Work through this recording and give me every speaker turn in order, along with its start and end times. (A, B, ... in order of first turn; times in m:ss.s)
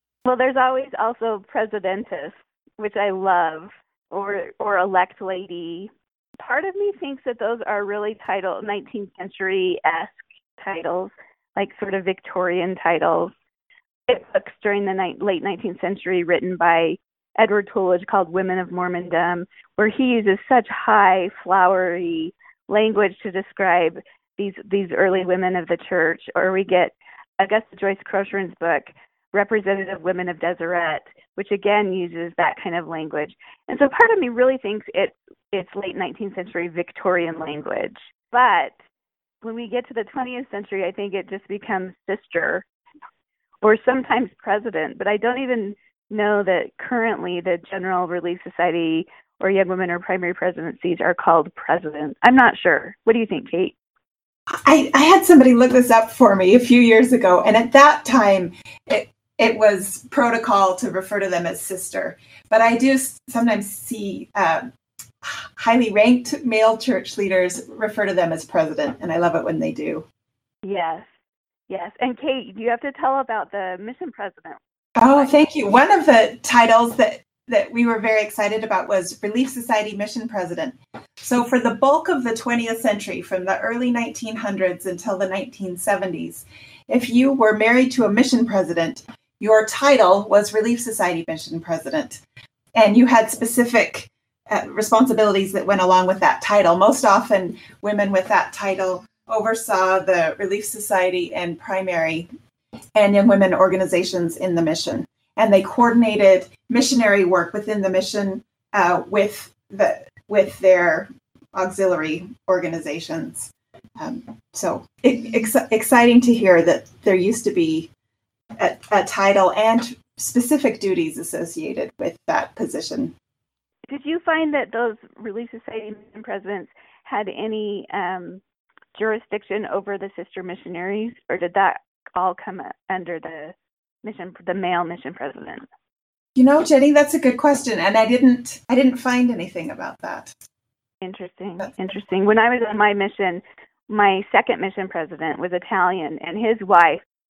0:00.2-0:13.3 A
0:14.1-0:38.7 A
0:39.4-0:42.6 A
0:43.6-0:53.8 A
0:54.6-1:04.7 B
1:05.2-1:10.0 B
1:10.6-1:11.1 A
1:11.7-1:15.3 A
1:15.0-1:32.2 B
1:32.8-1:42.3 B
1:42.9-1:57.9 B
1:58.6-2:03.1 B
2:03.9-2:08.4 A
2:08.9-2:15.6 A
2:16.4-2:20.3 B
2:21.0-2:27.0 A